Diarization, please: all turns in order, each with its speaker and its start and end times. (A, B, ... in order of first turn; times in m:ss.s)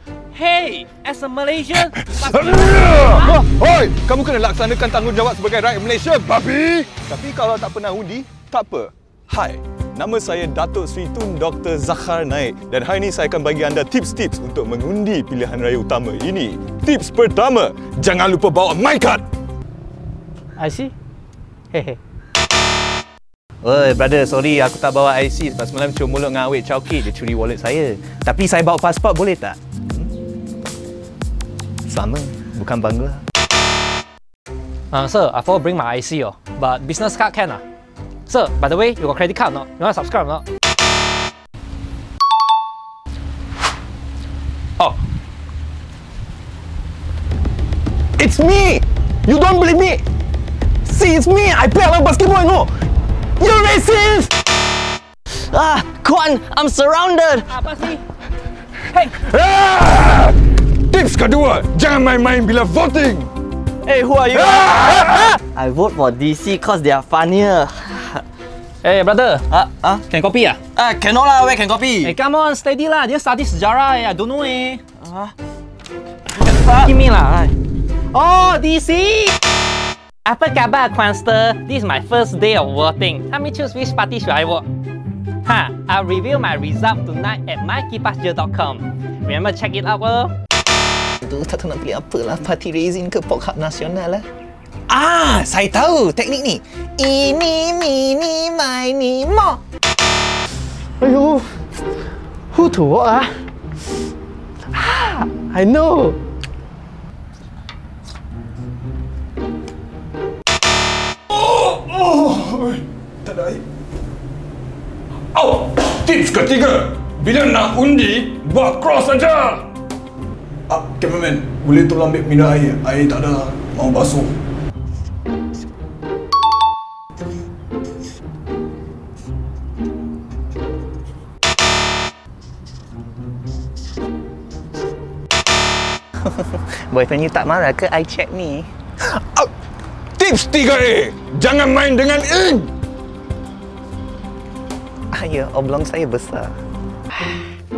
0:00.3-0:03.4 A
0:02.1-0:19.2 B
0:20.6-0:20.9 A
0:23.6-0:30.1 C
0:31.9-0:33.2 C
0:34.9-0:37.6 A
0:38.3-0:40.4 A
0:48.2-0:48.7 D
0:48.2-0:48.8 C
0:49.3-0:50.0 D
0:50.8-0:52.7 D
0:53.4-0:54.3 D
0:55.3-0:57.5 D
0:57.5-0:58.0 A
0:58.9-0:59.2 A
0:59.3-1:00.3 B
1:00.9-1:03.3 B
1:03.8-1:08.2 D
1:08.8-1:10.6 A
1:09.5-1:10.0 D
1:10.8-1:12.1 D
1:12.0-1:14.8 A
1:15.1-1:15.3 D
1:16.4-1:17.6 A
1:18.1-1:19.3 A
1:20.2-1:24.7 A
1:25.4-1:30.3 A
1:31.2-1:34.3 C
1:34.9-1:39.6 C
1:41.0-1:41.5 D
1:42.5-1:43.3 D
1:44.7-1:46.2 D
1:51.3-1:53.6 B
1:55.3-1:59.7 B
2:00.7-2:04.4 B
2:16.2-2:18.7 C
2:20.2-2:22.7 B
2:25.1-2:26.5 C